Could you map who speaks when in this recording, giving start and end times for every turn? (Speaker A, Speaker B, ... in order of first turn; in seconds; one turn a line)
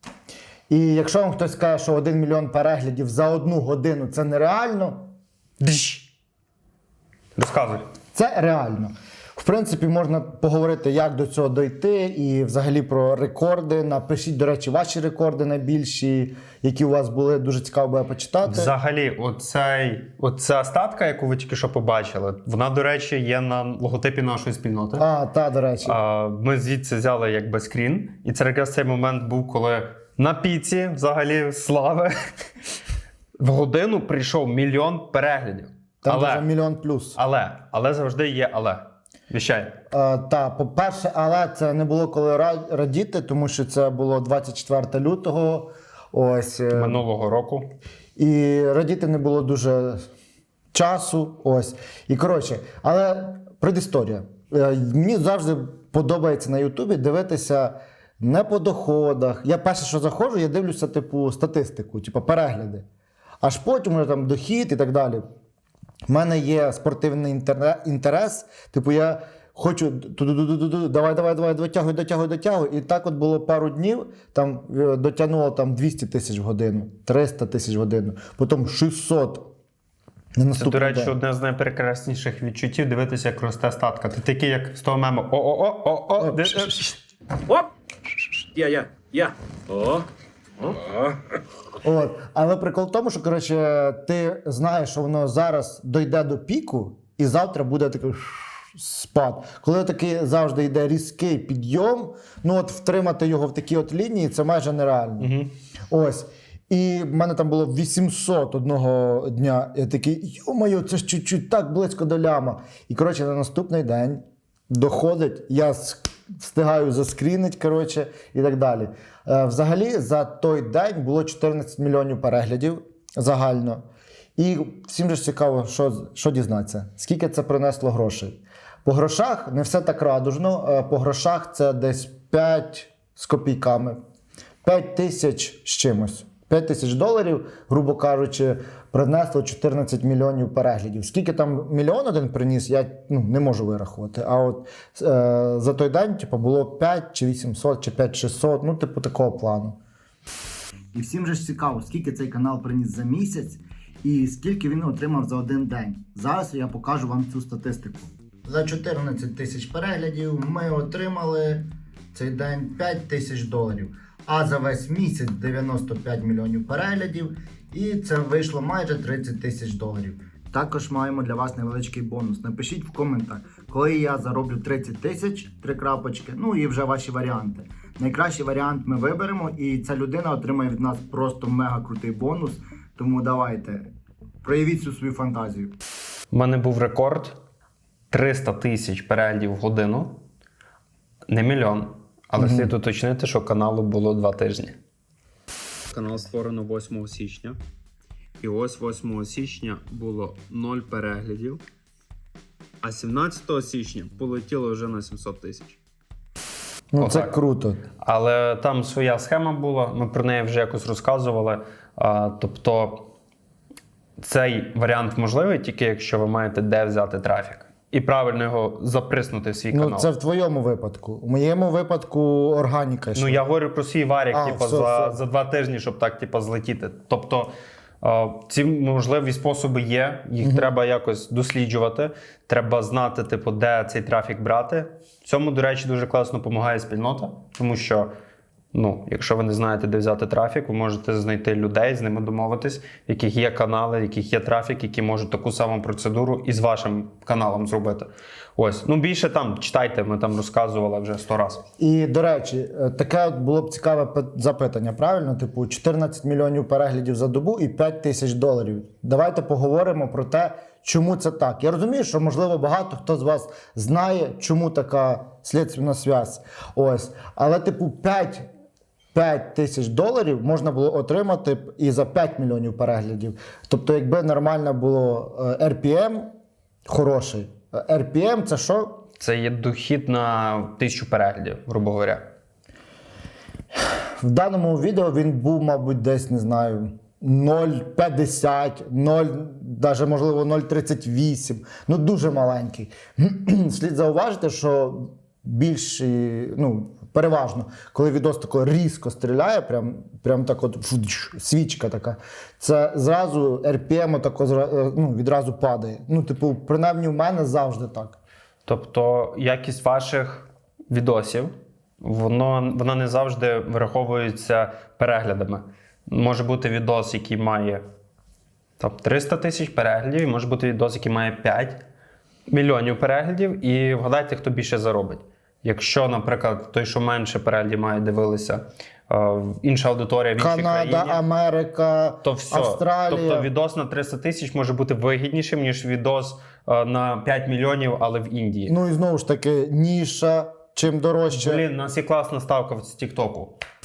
Speaker A: 0.7-5.1
Speaker B: 5.6-6.1
Speaker B: 7.4-7.8
Speaker A: 8.1-18.7
Speaker B: 18.4-25.1
Speaker A: 25.0-26.0
Speaker B: 25.8-32.1
Speaker B: 33.4-36.5
Speaker A: 36.0-37.2
Speaker B: 37.2-39.8
Speaker A: 39.9-47.0
Speaker B: 46.7-47.7
Speaker A: 48.2-50.0
Speaker A: 50.7-62.9
Speaker A: 63.4-65.2
Speaker A: 66.1-79.5
Speaker A: 80.4-81.1
Speaker B: 80.5-87.0
Speaker A: 86.2-86.6
Speaker C: 88.5-90.1
Speaker C: 90.6-91.2
Speaker A: 91.8-105.3
Speaker B: 105.2-105.5
Speaker A: 105.9-123.8
Speaker A: 124.4-134.0
Speaker A: 134.6-149.8
Speaker A: 150.9-183.8
Speaker A: 184.4-185.7
Speaker B: 186.3-187.4
Speaker B: 188.1-190.2
Speaker B: 191.3-194.8
Speaker A: 192.3-192.7
Speaker B: 195.9-197.6
Speaker B: 198.4-201.6
Speaker B: 202.8-205.8
Speaker A: 206.9-207.8
Speaker B: 207.0-207.3
Speaker B: 208.0-213.1
Speaker B: 214.2-220.1
Speaker A: 219.7-223.4
Speaker B: 223.1-238.1
Speaker A: 224.3-225.2
Speaker A: 230.4-230.7
Speaker B: 238.7-251.6
Speaker A: 251.8-268.4
Speaker A: 269.1-276.2
Speaker A: 276.9-279.0
Speaker B: 279.2-282.2
Speaker A: 284.2-308.2
Speaker B: 308.6-317.8
Speaker B: 318.8-321.8
Speaker B: 322.5-331.2
Speaker A: 330.4-333.5
Speaker B: 332.2-338.8
Speaker A: 338.7-341.6
Speaker B: 341.3-343.6